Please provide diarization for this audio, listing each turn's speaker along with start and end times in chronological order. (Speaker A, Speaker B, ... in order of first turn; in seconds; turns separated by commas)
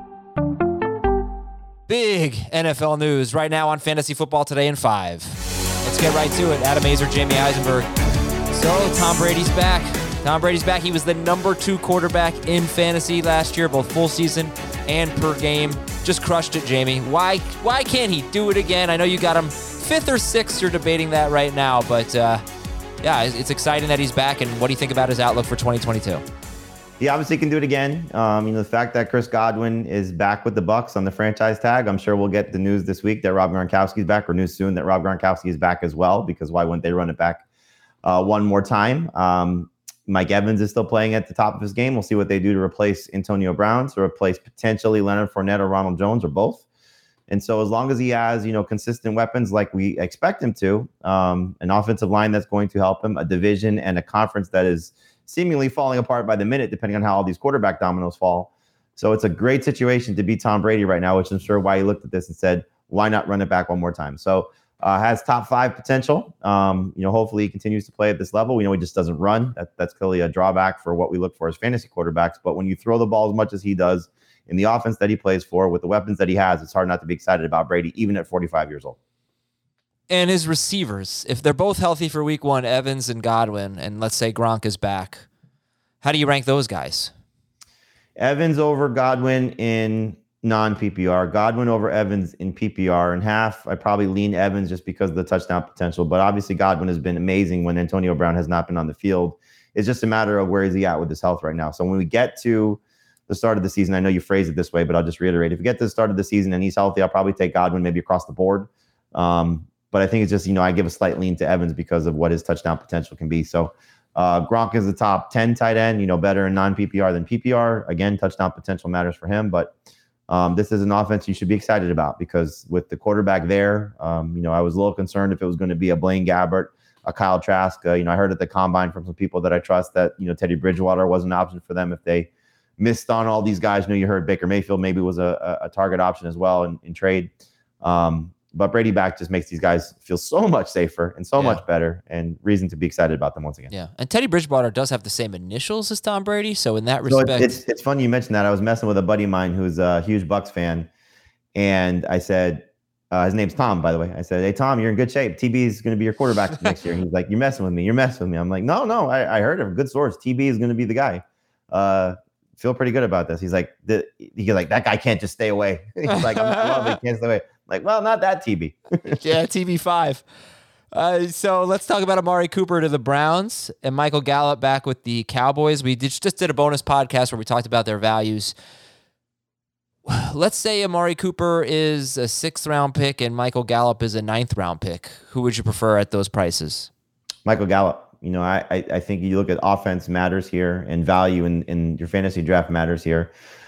Speaker A: 1.9-7.9, Speaker A: 8.5-22.4, Speaker A: 23.0-26.2, Speaker B: 27.0-37.4, Speaker B: 38.0-46.6, Speaker B: 47.3-79.0, Speaker A: 80.1-85.2, Speaker A: 86.0-87.1, Speaker B: 88.2-119.7, Speaker B: 120.3-137.3, Speaker B: 137.8-143.7, Speaker A: 141.3-141.6, Speaker A: 143.7-147.6, Speaker B: 147.1-150.9, Speaker B: 151.5-169.2, Speaker A: 166.1-167.0, Speaker A: 169.1-170.2, Speaker A: 170.9-178.5, Speaker A: 180.1-186.9, Speaker B: 187.4-193.3